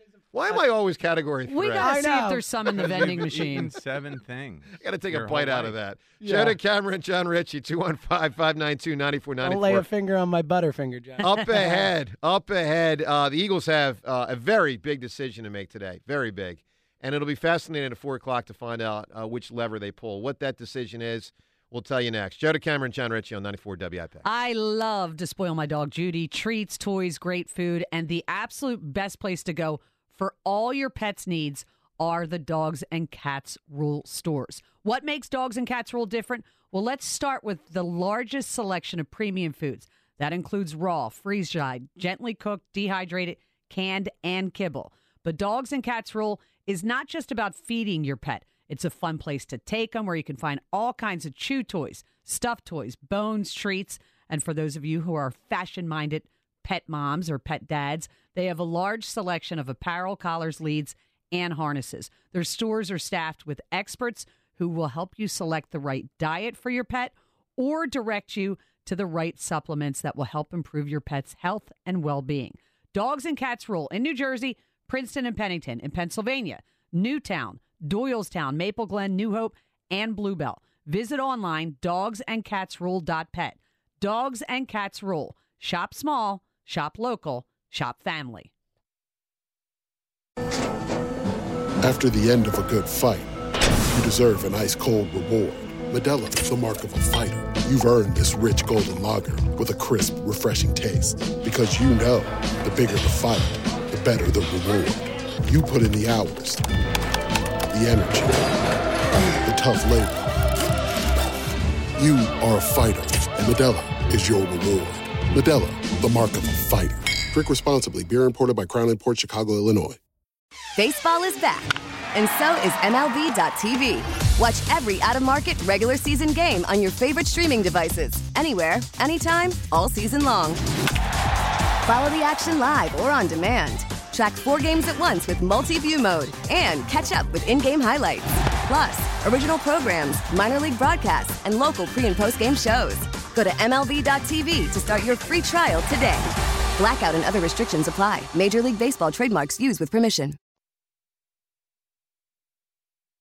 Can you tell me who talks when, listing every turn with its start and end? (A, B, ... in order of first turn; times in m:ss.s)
0:00.3-0:01.8 A
0:01.5-0:03.7 B
0:01.8-0:02.4 C
0:02.8-0:05.8 D
0:04.8-0:09.9 A
0:06.2-0:06.6 C
0:09.4-0:11.6 C
0:11.2-0:11.6 B
0:11.2-0:24.2 A
0:24.2-1:28.5 B
1:31.8-1:33.3 E
1:33.9-1:46.6 E
1:47.7-1:48.6 E
1:49.4-1:50.3 E
1:52.0-2:00.0 E
2:00.8-2:10.6 F
2:11.9-2:26.3 F
2:26.8-2:30.4 F